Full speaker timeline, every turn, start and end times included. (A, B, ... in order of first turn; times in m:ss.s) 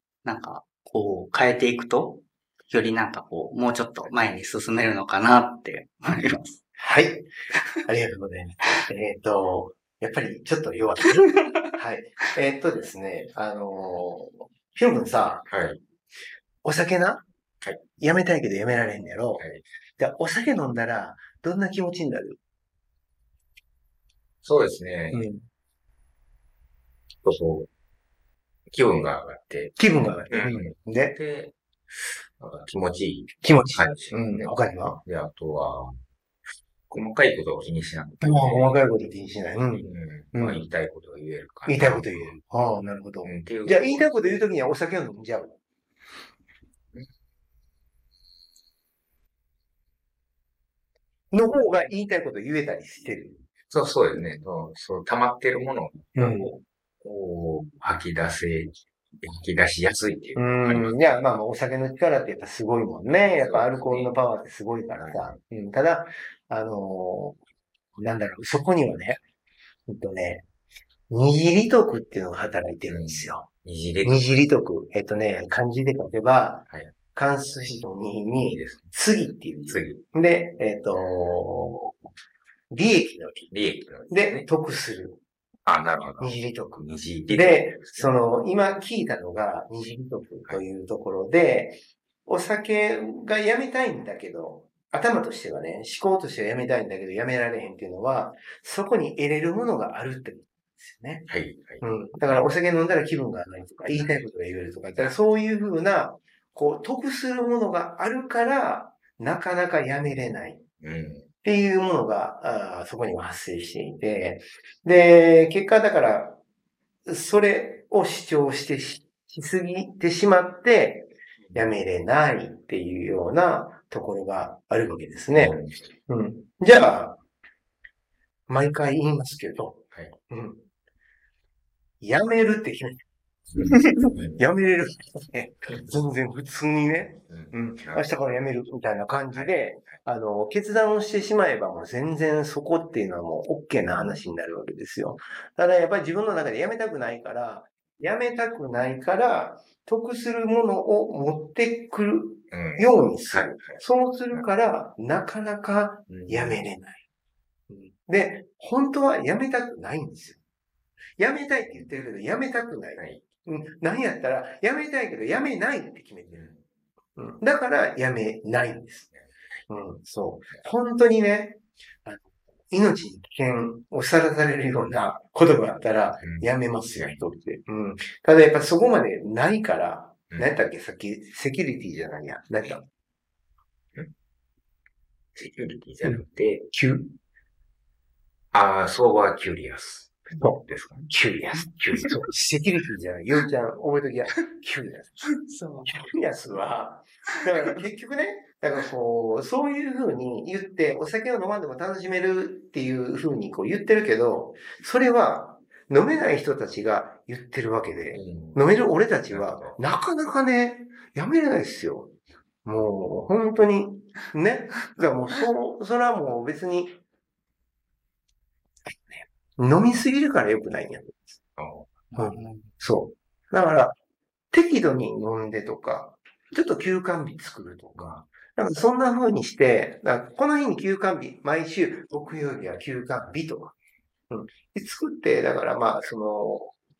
0:00.2-0:06.6 A
0:04.0-0:04.4 B
0:06.8-0:07.3 C
0:07.8-0:15.5 C
0:15.5-0:15.8 B
0:16.6-0:17.2 C
0:18.0-0:19.4 C
0:19.4-0:19.6 B
0:20.0-0:22.4 C
0:24.4-0:25.2 B
0:25.1-0:25.4 C
0:27.2-0:27.7 B
0:28.7-0:35.9 B
0:29.8-0:31.2 C
0:33.4-0:35.0 C
0:36.9-0:38.9 B
0:38.2-0:40.7 C
0:39.8-0:42.4 B
0:41.6-0:45.5 C
0:43.2-0:44.5 B
0:51.3-0:53.4 C
0:53.7-1:01.2 B
0:56.1-0:56.5 C
1:00.3-1:07.4 C
1:03.3-1:04.2 B
1:04.9-1:05.4 B
1:08.0-1:09.2 C
1:09.9-1:10.4 C
1:11.1-1:13.5 C
1:12.9-1:14.4 B
1:14.0-1:22.0 C
1:16.7-1:16.9 B
1:18.4-1:18.9 B
1:19.6-1:20.0 B
1:22.7-1:23.5 C
1:23.5-1:24.5 B
1:24.1-1:25.2 C
1:25.6-1:28.2 B
1:26.2-1:41.3 C
1:41.3-1:42.5 B
1:41.8-1:50.6 C
1:43.9-1:44.2 B
1:50.8-1:51.2 B
1:51.4-1:56.4 C
1:57.0-2:07.2 C
2:05.3-2:05.9 B
2:08.5-2:10.6 C
2:12.0-2:13.0 C
2:13.5-2:14.4 B
2:14.3-2:37.0 C
2:17.3-2:18.1 B
2:19.3-2:19.7 B
2:32.5-2:33.8 B
2:36.1-2:36.6 B
2:37.7-2:40.4 C
2:41.2-2:46.5 C
2:43.0-2:43.2 B
2:46.3-2:46.6 B
2:47.2-2:49.1 C
2:49.7-3:02.8 C
2:56.2-2:57.3 B
3:05.4-3:06.7 B
3:06.0-3:07.1 C
3:08.5-3:12.2 B
3:10.4-3:15.3 C
3:15.5-3:15.8 A
3:15.8-3:32.1 C
3:28.1-3:28.6 B
3:29.3-3:29.8 B
3:32.6-3:36.9 C
3:38.9-3:41.4 C
3:41.6-3:42.4 B
3:42.1-3:44.0 C
3:44.5-3:53.7 C
3:48.0-3:48.3 B
3:54.3-3:56.7 C